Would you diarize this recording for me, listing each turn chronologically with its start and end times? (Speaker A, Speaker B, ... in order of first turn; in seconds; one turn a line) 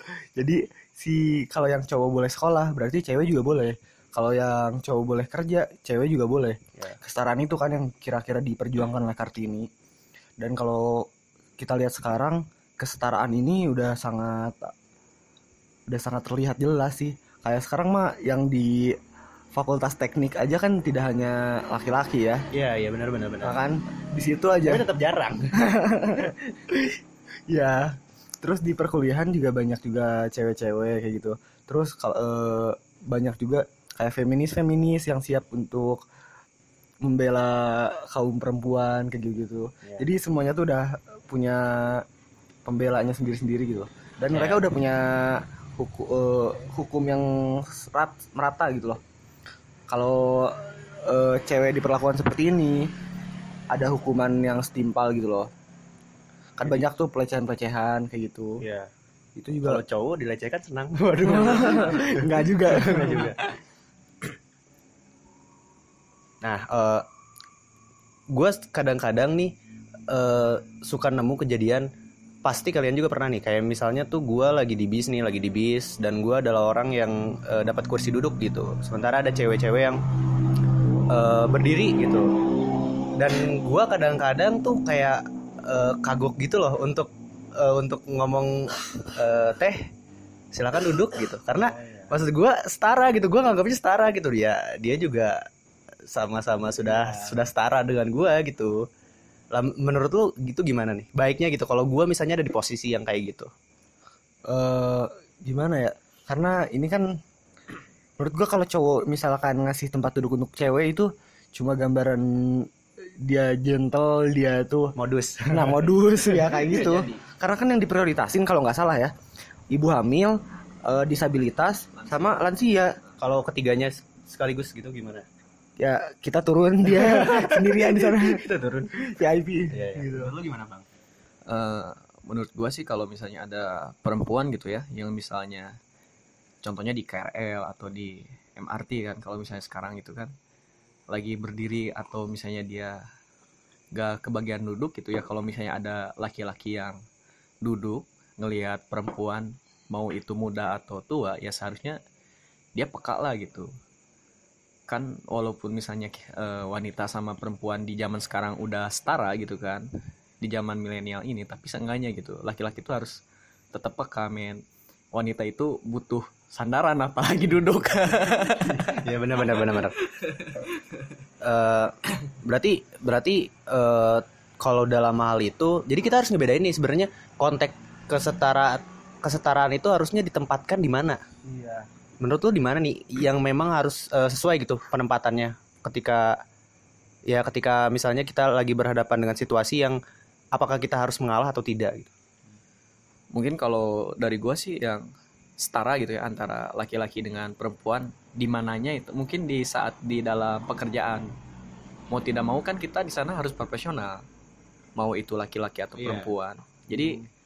Speaker A: 0.2-9.7
Speaker A: 10.4-14.7
Speaker A: 15.9-18.9
Speaker A: 19.5-22.4
Speaker B: 22.5-23.6
Speaker A: 23.4-24.8
Speaker B: 24.6-25.6
Speaker A: 25.6-36.0
Speaker A: 37.0-42.0
Speaker A: 42.6-49.0
Speaker A: 49.9-52.9
Speaker A: 53.7-55.5
Speaker A: 56.6-58.6
Speaker B: 58.6-58.9
Speaker A: 59.4-59.8
Speaker B: 59.6-63.5
Speaker A: 61.2-63.3
Speaker B: 66.4-67.0
Speaker B: 68.3-69.5
Speaker B: 70.1-71.9
Speaker B: 72.4-80.0
Speaker B: 81.1-82.3
Speaker B: 83.2-89.9
Speaker B: 90.5-95.3
Speaker A: 91.6-92.1
Speaker B: 96.1-98.8
Speaker A: 96.8-97.5
Speaker B: 99.5-103.5
Speaker A: 104.5-107.1
Speaker A: 108.2-112.7
Speaker A: 113.2-114.9
Speaker B: 115.0-115.9
Speaker A: 115.5-119.1
Speaker C: 116.6-117.2
Speaker A: 119.7-123.0
Speaker C: 122.0-122.3
Speaker B: 123.2-125.2
Speaker A: 125.8-128.4
Speaker B: 126.9-129.0
Speaker A: 129.0-130.3
Speaker B: 129.7-130.8
Speaker C: 131.5-135.7
Speaker C: 136.6-140.3
Speaker C: 141.1-143.0
Speaker C: 143.9-147.0
Speaker C: 147.6-152.0
Speaker C: 152.8-153.7
Speaker C: 154.9-159.8
Speaker C: 160.4-163.2
Speaker C: 163.7-164.6
Speaker C: 165.1-169.1
Speaker B: 168.8-169.9
Speaker C: 169.7-170.6
Speaker B: 171.4-181.2
Speaker A: 181.4-181.9
Speaker B: 182.2-186.4
Speaker B: 187.3-190.0
Speaker B: 190.5-192.1
Speaker C: 193.3-195.0
Speaker C: 195.6-201.3
Speaker C: 202.1-204.2
Speaker C: 205.0-207.2
Speaker B: 206.0-206.3